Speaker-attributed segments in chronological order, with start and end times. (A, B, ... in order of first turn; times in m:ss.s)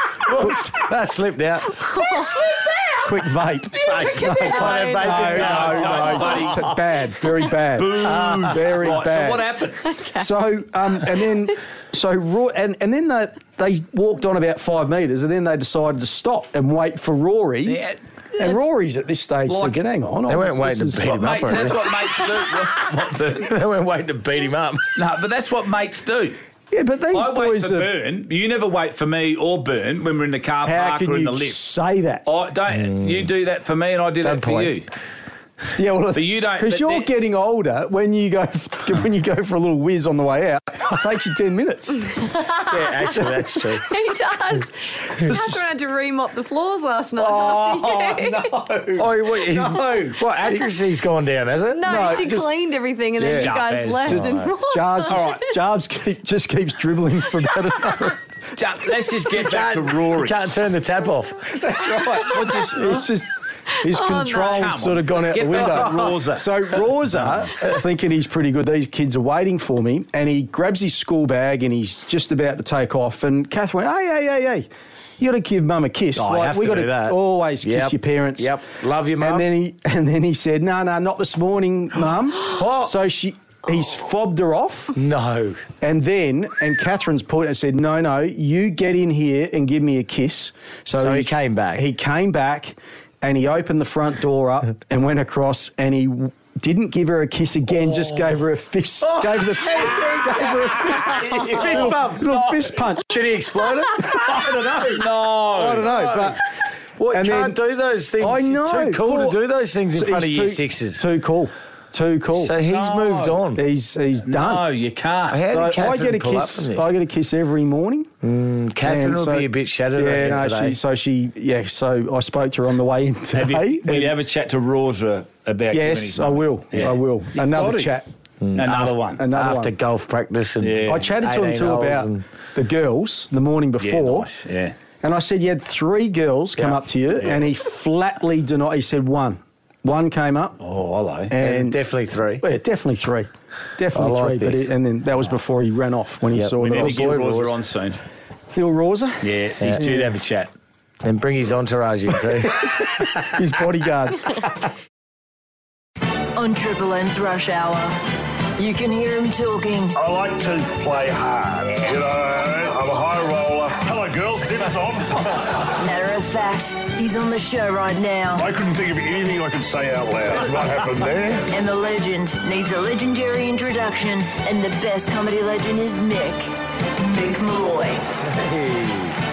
0:00.2-0:01.8 A
0:00.4-0:00.7 B
0:01.8-0:02.6 C
0:03.0-0:09.5 B
0:03.8-0:06.8 A
0:04.0-0:05.3 C
0:04.6-0:06.7 D
0:07.7-0:10.0 D
0:08.0-0:08.5 A
0:09.9-0:10.2 C
0:10.2-0:17.8 B
0:17.6-0:18.6 D
0:18.4-0:21.7 B
0:19.4-0:19.8 D
0:20.3-0:22.0 A
0:21.2-0:23.5 D
0:23.1-0:24.9 A
0:25.0-0:26.4 D
0:26.7-0:27.9 B
0:27.1-0:31.6 D
0:30.6-0:32.2 B
0:32.2-0:34.9 D
0:32.7-0:33.3 A
0:34.2-0:34.8 A
0:35.8-0:42.1 B
0:36.1-0:37.1 D
0:42.2-0:43.1 C
0:42.7-0:43.9 A
0:43.9-0:48.5 C
0:45.3-0:45.5 B
0:47.2-0:50.2 B
0:47.2-0:48.3 A
0:49.0-0:52.5 A
0:51.7-0:55.4 C
0:53.2-0:53.5 B
0:53.2-0:54.5 D
0:54.1-0:58.2 B
0:55.1-0:55.4 D
0:58.6-1:00.4 D
0:59.3-1:01.6 A
1:01.6-1:03.3 B
1:02.2-1:03.1 D
1:03.8-1:14.7 B
1:03.9-1:04.6 C
1:04.2-1:06.5 D
1:05.4-1:06.0 A
1:15.2-1:18.5 B
1:16.1-1:19.5 A
1:19.2-1:25.0 B
1:22.5-1:22.9 A
1:24.9-1:25.6 A
1:25.8-1:43.2 B
1:30.9-1:31.8 A
1:39.0-1:42.4 A
1:41.0-1:42.9 D
1:43.0-1:44.8 A
1:44.0-1:46.4 B
1:44.8-1:46.1 D
1:45.8-1:46.4 A
1:47.0-1:51.0 A
1:47.1-1:47.6 B
1:48.2-1:49.4 B
1:49.9-1:52.5 B
1:52.3-1:53.6 A
1:52.6-1:53.5 D
1:53.6-1:54.6 B
1:54.2-1:55.4 D
1:55.3-1:56.9 A
1:55.5-1:58.1 B
1:58.2-2:00.8 A
1:58.8-2:04.1 B
2:03.3-2:07.9 D
2:05.7-2:08.0 B
2:08.4-2:12.2 A
2:08.6-2:09.2 D
2:09.2-2:09.7 B
2:10.6-2:11.0 D
2:10.9-2:14.3 B
2:13.8-2:14.7 D
2:15.0-2:20.6 B
2:16.6-2:17.3 D
2:20.6-2:21.3 D
2:21.3-2:21.8 B
2:21.4-2:22.4 A
2:22.4-2:27.2 B
2:23.9-2:24.7 A
2:26.3-2:27.6 A
2:26.6-2:28.0 D
2:28.5-2:30.1 B
2:29.2-2:30.5 D
2:29.6-2:29.9 A
2:31.0-2:32.6 A
2:32.8-2:34.5 B
2:36.4-2:37.9 E
2:38.6-2:40.0 E
2:39.9-2:45.7 F
2:45.8-2:48.5 E
2:48.4-2:51.4 F
2:51.5-2:58.0 E
2:58.2-2:59.2 A